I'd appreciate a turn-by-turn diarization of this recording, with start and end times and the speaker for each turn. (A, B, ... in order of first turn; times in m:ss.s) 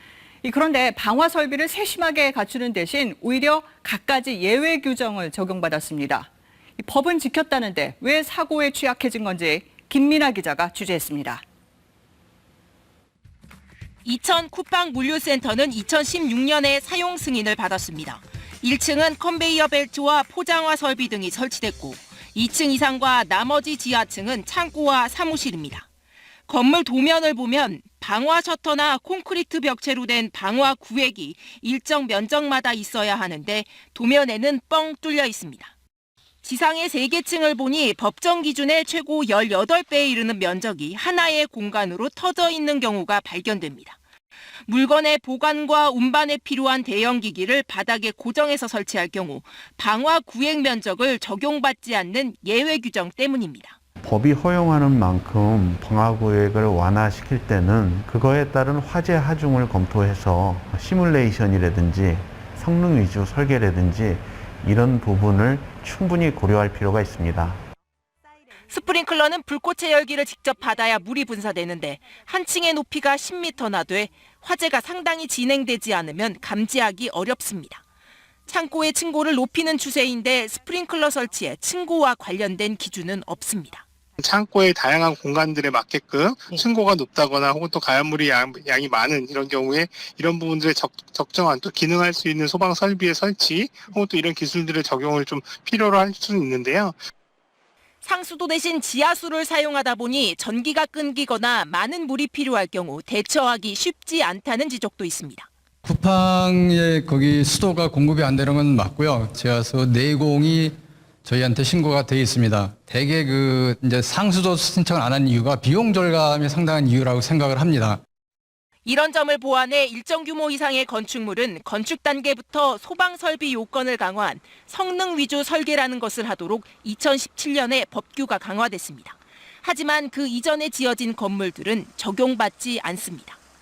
0:00.4-0:11.4 A
0:14.0-0:25.9 B
0:26.5-0:35.7 B
0:36.4-0:44.0 B
0:44.7-0:53.8 B
0:54.0-1:07.6 C
1:08.7-1:17.8 B
1:18.5-1:23.9 B
1:24.2-1:37.0 D
1:38.0-1:45.5 B
1:45.8-1:58.0 E
1:58.8-2:13.4 B